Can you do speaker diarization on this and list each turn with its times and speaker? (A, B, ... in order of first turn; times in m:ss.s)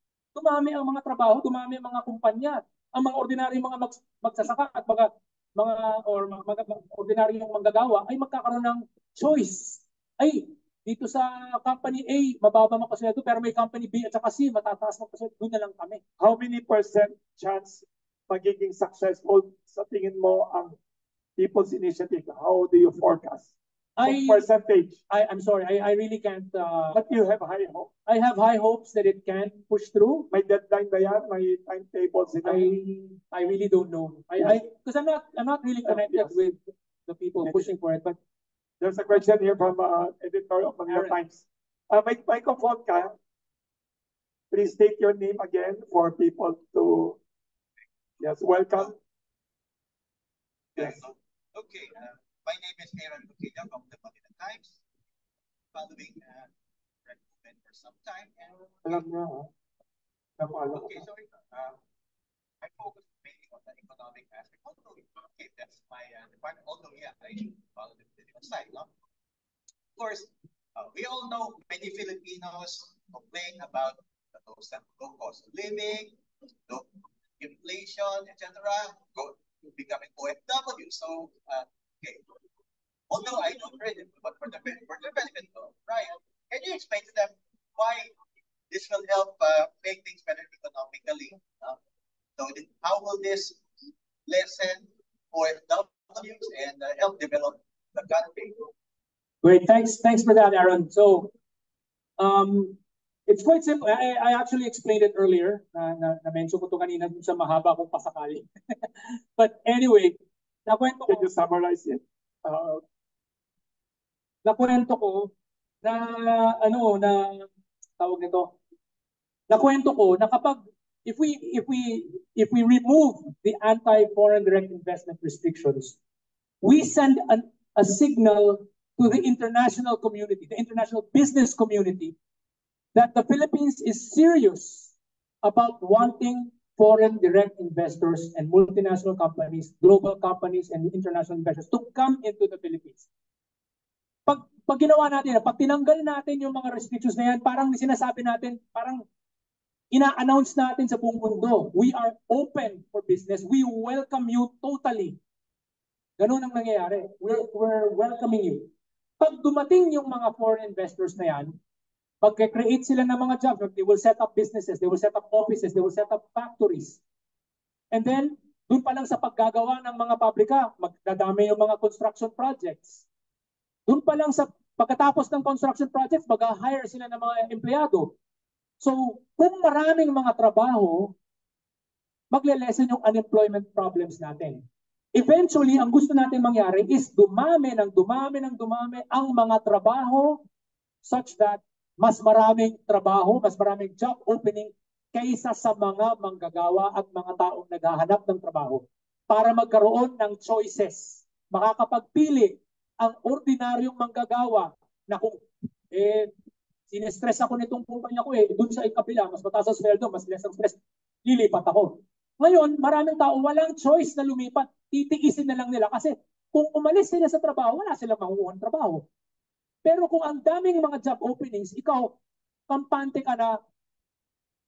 0:00.4-0:16.0 A
0:16.2-0:20.8 B
0:21.4-0:23.5 B
0:24.0-0:24.4 A
0:24.0-0:25.0 B
0:25.1-0:27.2 A
0:26.9-0:27.9 B
0:28.1-0:30.3 A
0:30.3-0:32.6 B
0:32.4-0:38.2 A
0:35.8-0:36.4 B
0:38.8-0:43.2 B
0:40.9-0:41.2 A
0:44.5-0:47.2 B
0:48.2-0:49.0 B
0:50.8-0:54.8 C
0:55.7-0:56.5 C
0:57.0-0:59.0 C
0:58.8-0:59.5 B
1:00.4-1:01.0 B
1:00.7-1:01.8 C
1:02.6-1:08.9 C
1:10.0-1:16.9 C
1:17.4-1:22.2 C
1:23.1-1:28.1 C
1:28.7-1:31.8 C
1:32.4-1:33.6 C
1:34.3-1:38.6 C
1:39.4-1:41.3 A
1:42.2-1:51.3 A
1:51.1-1:52.8 B
1:54.4-1:55.3 A
1:55.8-1:58.6 A
1:59.5-2:06.0 A
2:06.6-2:12.2 A
2:12.9-2:23.1 A
2:24.3-2:29.0 A
2:29.9-2:35.2 A
2:36.2-2:41.5 A
2:42.2-2:47.0 A
2:47.9-2:53.0 A
2:53.9-2:58.2 A
2:58.8-3:01.1 A
3:02.3-3:04.6 A
3:05.2-3:10.4 A
3:11.0-3:26.3 A
3:26.9-3:39.0 A
3:39.8-3:42.2 A
3:42.7-3:43.6 A